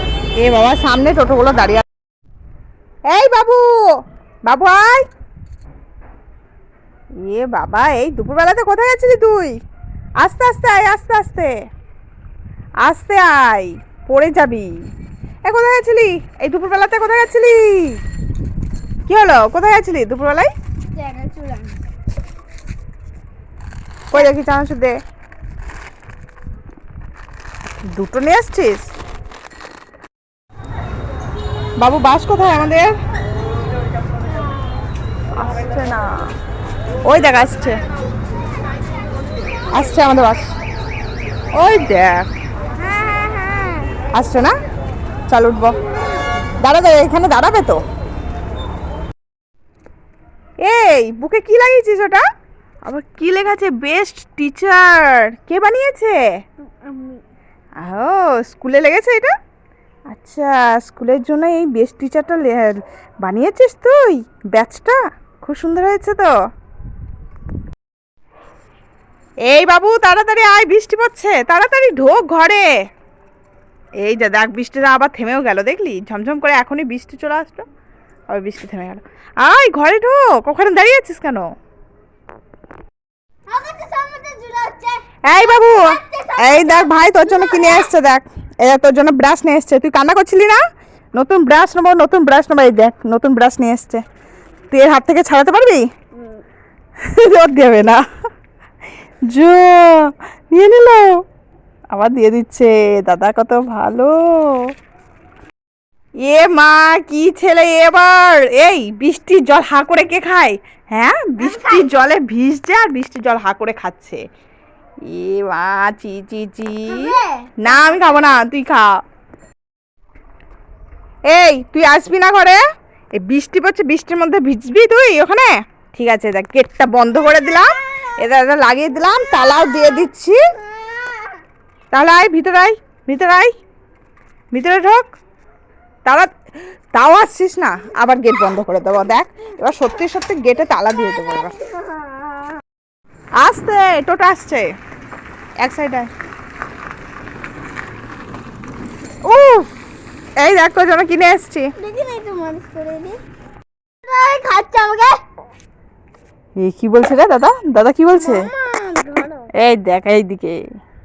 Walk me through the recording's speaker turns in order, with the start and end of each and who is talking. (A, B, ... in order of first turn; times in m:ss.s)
0:00.4-0:01.8 A
0:03.1-0:03.7 A
0:04.4-0:05.1 A
0:07.2-0:09.5 A
0:10.2-0:11.5 A
0:12.8-0:14.7 A
0:15.4-0:18.0 A
0:19.1-0:20.5 A
0:20.9-0:21.8 B
0:24.1-0:25.0 A
0:27.9-0:28.9 A
0:31.8-0:32.9 A
0:35.4-0:36.2 A
0:37.0-0:37.8 A
0:39.7-0:40.5 A
0:41.6-0:42.2 A
0:42.7-0:43.9 B
0:44.1-0:44.5 A
0:45.3-0:45.8 A
0:46.6-0:47.8 A
0:50.6-0:52.2 A
0:52.8-0:56.1 A
0:56.7-0:57.2 B
0:57.8-0:59.3 A
1:00.1-1:06.3 A
1:09.5-1:12.7 A
1:14.0-1:17.6 A
1:18.3-1:21.4 A
1:23.5-1:27.9 B
1:25.2-1:30.6 A
1:31.2-1:34.0 A
1:34.7-1:35.8 A
1:37.0-1:38.0 A
1:39.3-1:41.1 A
1:41.9-1:44.6 A
1:46.2-1:54.2 A
1:51.4-1:51.9 B
1:55.0-1:59.0 A
1:56.9-1:58.4 B
2:01.3-2:02.6 A
2:03.2-2:10.4 A
2:10.6-2:11.3 B
2:11.9-2:13.5 A
2:14.5-2:15.1 A
2:16.0-2:16.3 A
2:16.9-2:21.5 A
2:21.1-2:22.6 B
2:23.4-2:24.7 A
2:25.6-2:26.1 A
2:29.2-2:29.7 A
2:30.4-2:31.7 A
2:31.8-2:33.2 B
2:34.0-2:35.2 B
2:36.6-2:38.5 A
2:38.1-2:39.5 B
2:39.5-2:40.6 A